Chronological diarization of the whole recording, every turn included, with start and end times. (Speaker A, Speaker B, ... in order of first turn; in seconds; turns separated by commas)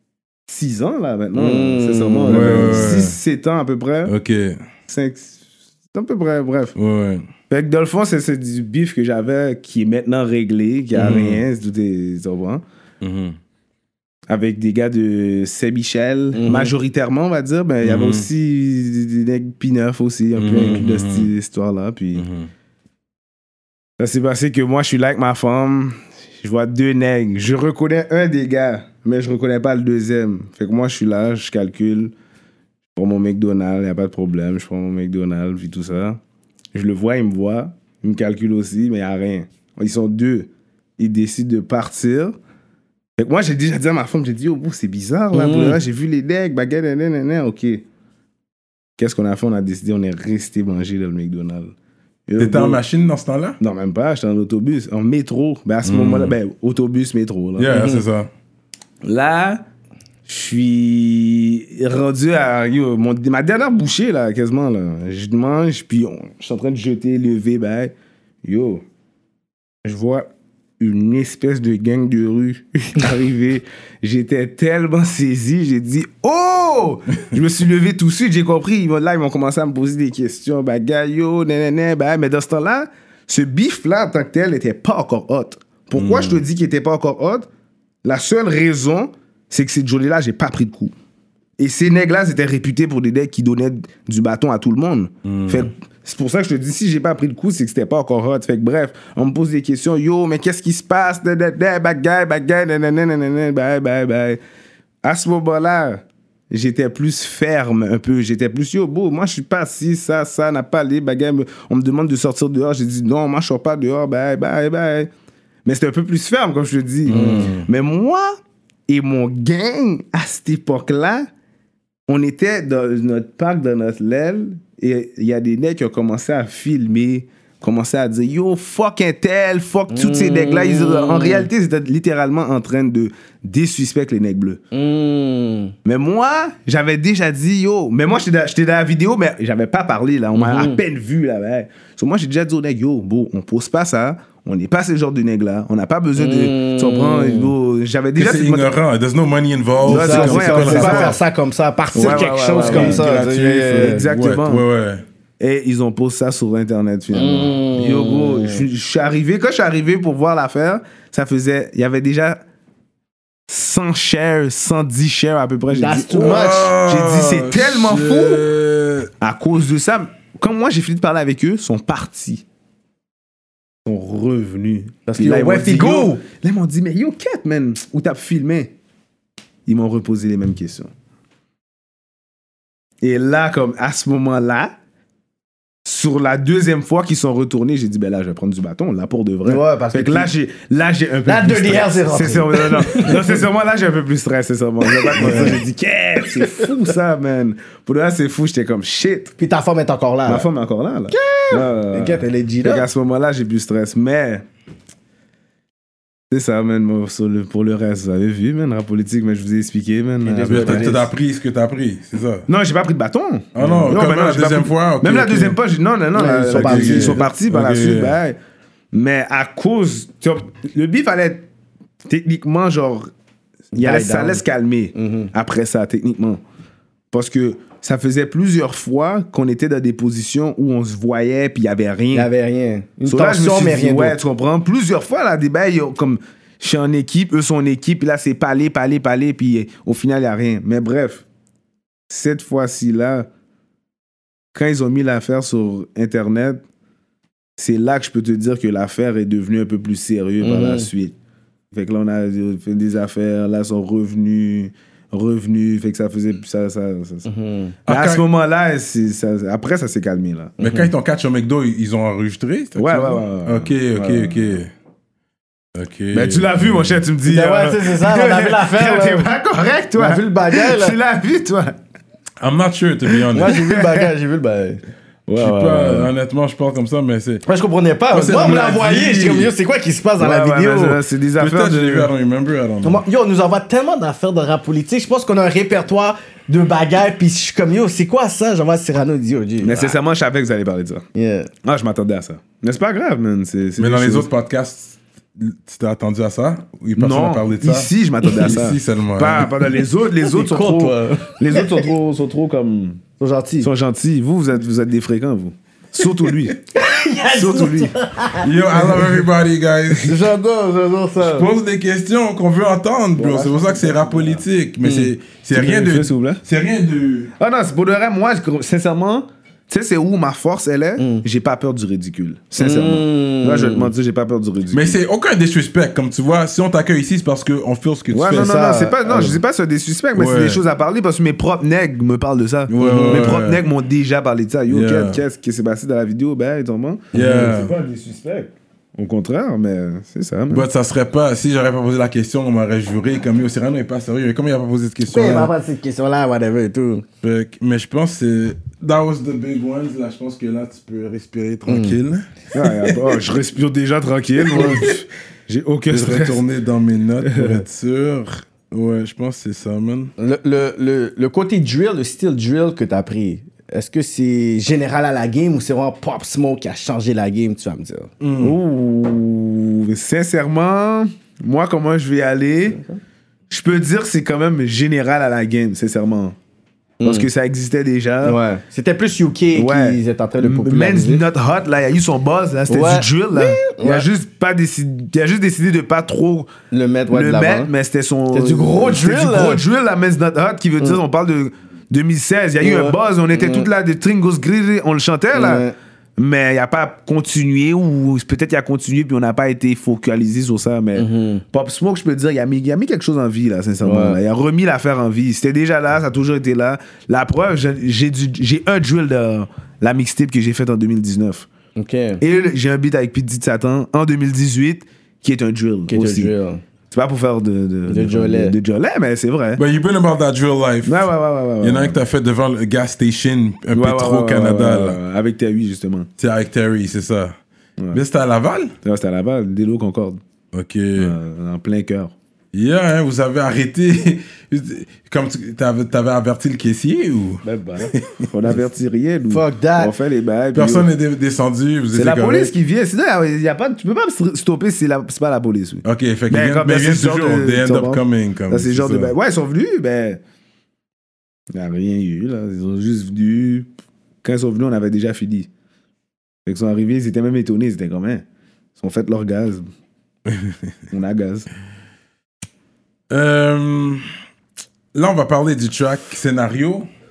Speaker A: 0.5-4.1, Speaker B: 1.3-3.0, Speaker C: 2.2-3.1, Speaker C: 4.1-4.6, Speaker A: 4.9-5.4, Speaker A: 5.9-6.7, Speaker C: 6.8-7.2, Speaker A: 7.5-12.6, Speaker C: 10.9-11.4, Speaker C: 13.0-13.4, Speaker A: 14.3-22.2, Speaker B: 16.3-16.7, Speaker C: 17.8-18.3, Speaker C: 20.4-21.3, Speaker C: 22.1-22.5, Speaker A: 24.0-32.1, Speaker A: 32.9-36.2, Speaker A: 36.7-42.4, Speaker A: 43.2-47.8, Speaker B: 45.3-45.8, Speaker A: 49.0-51.7, Speaker A: 52.3-52.8, Speaker C: 52.4-53.6, Speaker A: 53.6-57.7, Speaker C: 55.8-56.3, Speaker C: 57.6-58.3, Speaker B: 57.7-58.0, Speaker A: 59.0-59.6, Speaker A: 60.3-68.8, Speaker A: 69.8-87.5, Speaker C: 85.9-86.4, Speaker A: 88.0-90.9, Speaker A: 91.6-104.4, Speaker C: 95.2-95.7, Speaker A: 105.0-115.1, Speaker A: 115.6-118.3, Speaker C: 117.1-117.7, Speaker B: 117.1-117.5, Speaker A: 118.9-121.3, Speaker A: 122.1-134.6, Speaker B: 129.9-131.5, Speaker B: 134.7-135.7, Speaker A: 135.8-148.7, Speaker B: 140.3-140.8, Speaker B: 146.2-147.5, Speaker C: 148.2-151.2, Speaker A: 149.8-151.2, Speaker B: 149.9-154.0, Speaker A: 151.9-153.1, Speaker C: 151.9-155.0, Speaker A: 153.7-154.6, Speaker A: 155.4-162.4, Speaker B: 157.1-158.6, Speaker A: 163.5-168.4, Speaker B: 165.7-166.7, Speaker C: 166.2-169.1, Speaker A: 169.2-172.4, Speaker A: 173.8-178.7, Speaker B: 175.1-176.2, Speaker A: 179.7-180.9, Speaker A: 183.0-184.7, Speaker A: 185.8-199.3, Speaker B: 189.4-190.3, Speaker B: 191.2-193.3, Speaker B: 194.8-195.6, Speaker C: 195.2-195.6, Speaker B: 196.3-196.7, Speaker B: 199.4-200.5, Speaker A: 200.3-204.4, Speaker B: 201.1-202.8, Speaker A: 206.3-211.0, Speaker B: 210.2-211.1, Speaker C: 210.5-212.4, Speaker A: 212.5-218.4, Speaker C: 213.6-215.6, Speaker B: 216.1-217.2, Speaker C: 216.5-218.2, Speaker A: 218.9-221.4, Speaker A: 222.0-223.1, Speaker A: 223.7-226.4, Speaker B: 223.7-224.4, Speaker B: 224.9-225.3, Speaker A: 227.1-232.3, Speaker B: 232.1-234.2, Speaker A: 233.1-241.2, Speaker A: 242.1-243.3, Speaker A: 244.5-246.6, Speaker A: 247.6-251.1, Speaker B: 250.4-250.9, Speaker A: 251.7-257.3, Speaker B: 257.2-257.7, Speaker C: 257.9-258.2, Speaker A: 257.9-260.6, Speaker B: 260.6-260.9, Speaker C: 260.6-264.7, Speaker A: 262.8-264.6, Speaker C: 265.7-267.0, Speaker A: 266.1-271.8, Speaker B: 267.2-269.3, Speaker B: 270.0-270.9, Speaker C: 272.4-273.6, Speaker B: 273.3-274.8, Speaker A: 273.3-274.1, Speaker A: 275.3-276.1, Speaker C: 275.4-277.4, Speaker B: 277.4-281.0, Speaker C: 278.1-279.5, Speaker A: 280.2-282.1, Speaker C: 281.4-283.0, Speaker B: 282.8-290.0, Speaker A: 289.6-291.0, Speaker B: 291.1-291.5, Speaker A: 291.6-294.3, Speaker C: 293.8-299.5, Speaker A: 296.9-303.0, Speaker B: 300.2-301.9, Speaker B: 303.2-303.7, Speaker A: 303.6-306.6, Speaker B: 306.7-309.1, Speaker A: 307.3-307.9, Speaker C: 308.4-310.2, Speaker B: 310.0-311.5, Speaker C: 311.2-317.3, Speaker A: 313.2-314.4, Speaker B: 314.8-315.1, Speaker A: 315.5-316.4, Speaker A: 317.4-325.0, Speaker B: 321.0-321.2, Speaker B: 322.6-323.9, Speaker C: 324.7-328.6, Speaker A: 328.1-340.7, Speaker B: 328.3-329.4, Speaker C: 330.1-330.6, Speaker C: 332.7-333.6, Speaker B: 332.8-333.4, Speaker C: 334.7-335.2, Speaker C: 337.1-337.7, Speaker B: 337.1-337.5, Speaker C: 340.5-345.5, Speaker B: 345.1-347.0, Speaker C: 347.2-352.3, Speaker B: 351.7-352.0, Speaker A: 352.5-356.4, Speaker C: 354.5-354.9, Speaker C: 355.9-360.1, Speaker A: 357.2-357.6, Speaker B: 360.2-368.1, Speaker C: 368.2-368.6, Speaker A: 368.4-372.8, Speaker A: 373.5-376.4, Speaker B: 377.0-377.3, Speaker A: 377.0-378.4, Speaker B: 378.2-381.2, Speaker A: 379.5-386.5, Speaker B: 382.7-384.1, Speaker B: 386.7-387.7, Speaker A: 387.1-411.5, Speaker B: 388.3-389.6, Speaker B: 392.6-393.7, Speaker B: 395.3-395.7, Speaker B: 400.9-401.4, Speaker B: 403.8-404.2, Speaker B: 411.8-412.2, Speaker A: 412.2-416.3, Speaker B: 415.9-416.6, Speaker A: 416.9-419.6, Speaker B: 417.9-418.6, Speaker C: 419.6-421.0, Speaker A: 420.8-422.0, Speaker C: 421.6-425.0, Speaker A: 423.7-426.1, Speaker C: 426.2-427.4, Speaker C: 427.9-428.7, Speaker A: 428.8-430.2, Speaker C: 430.5-431.1, Speaker A: 431.0-432.1, Speaker C: 432.5-438.3, Speaker A: 437.4-440.9, Speaker B: 439.3-439.9, Speaker C: 440.5-442.5, Speaker A: 441.9-450.2, Speaker C: 445.8-449.1, Speaker A: 451.5-453.7, Speaker A: 454.2-455.5, Speaker A: 456.4-458.2, Speaker A: 458.8-459.6, Speaker A: 460.9-461.5, Speaker C: 463.1-464.0, Speaker C: 464.9-466.9